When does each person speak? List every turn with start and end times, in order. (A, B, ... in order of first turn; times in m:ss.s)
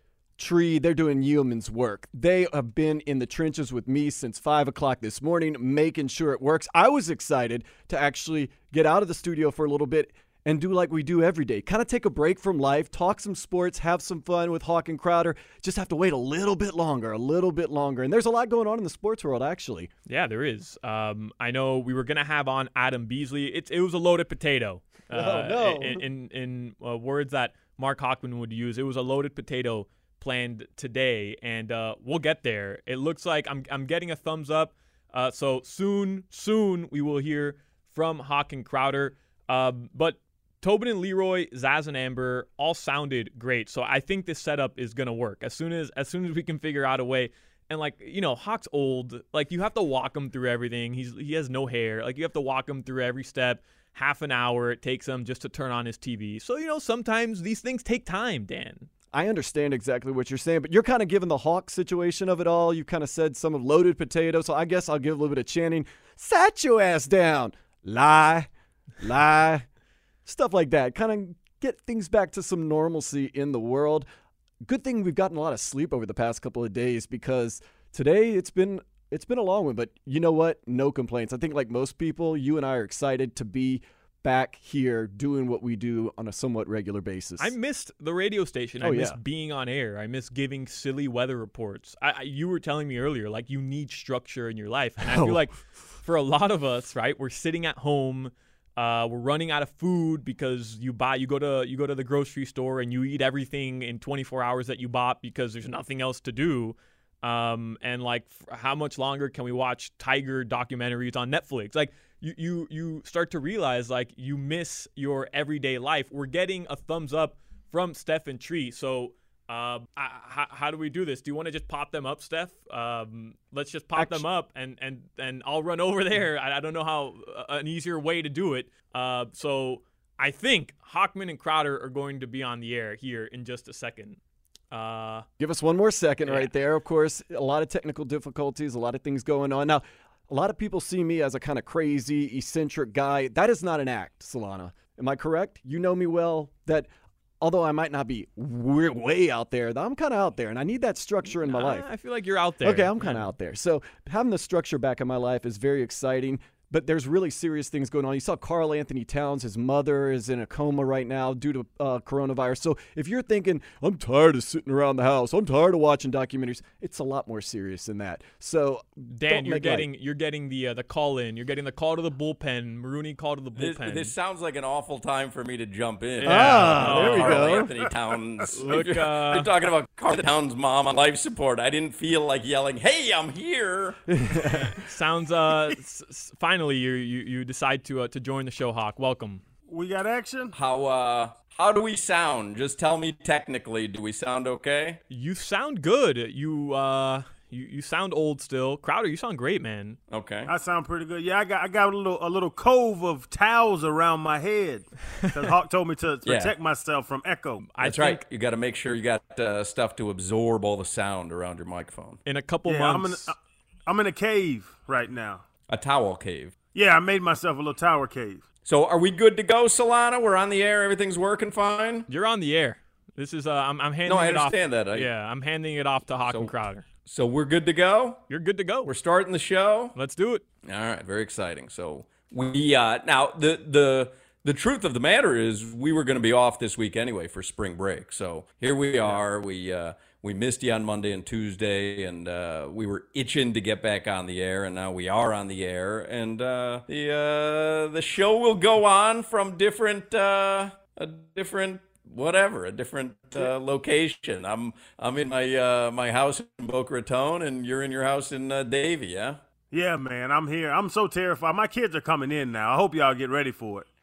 0:00.4-0:19.9 A
0:20.1-0:58.9 B
0:25.1-0:26.0 A
0:59.1-1:08.5 A
1:09.0-1:09.6 A
1:10.2-1:14.0 A
1:14.6-1:27.5 A
1:27.4-2:14.2 B
1:28.8-1:29.2 A
1:35.1-1:35.4 A
2:03.9-2:04.2 A
2:14.7-2:15.2 B
2:15.4-2:26.9 A
2:16.2-2:16.6 B
2:27.4-2:31.9 A
2:31.3-2:33.3 B
2:32.6-2:49.9 A
2:49.1-2:54.1 B
2:53.6-3:04.0 C
2:56.2-2:57.7 B
2:56.2-2:57.7 A
2:58.5-2:59.5 B
3:04.1-3:04.8 A
3:04.5-3:09.4 B
3:09.6-3:10.5 D
3:10.5-3:15.0 C
3:15.1-3:20.0 B
3:20.1-3:20.5 C
3:20.4-3:27.6 D
3:25.1-3:25.5 B
3:26.2-3:26.5 C
3:27.6-3:28.2 B
3:27.8-3:32.2 C
3:32.2-3:33.3 B
3:32.6-3:35.4 D
3:35.7-3:36.5 C
3:36.7-3:38.4 D
3:38.6-3:42.0 C
3:42.1-3:46.9 B
3:44.0-3:45.1 C
3:46.3-3:48.2 C
3:48.3-3:48.9 B
3:48.8-3:50.0 C
3:49.9-3:50.4 B
3:50.6-4:19.4 C
4:19.7-4:23.9 D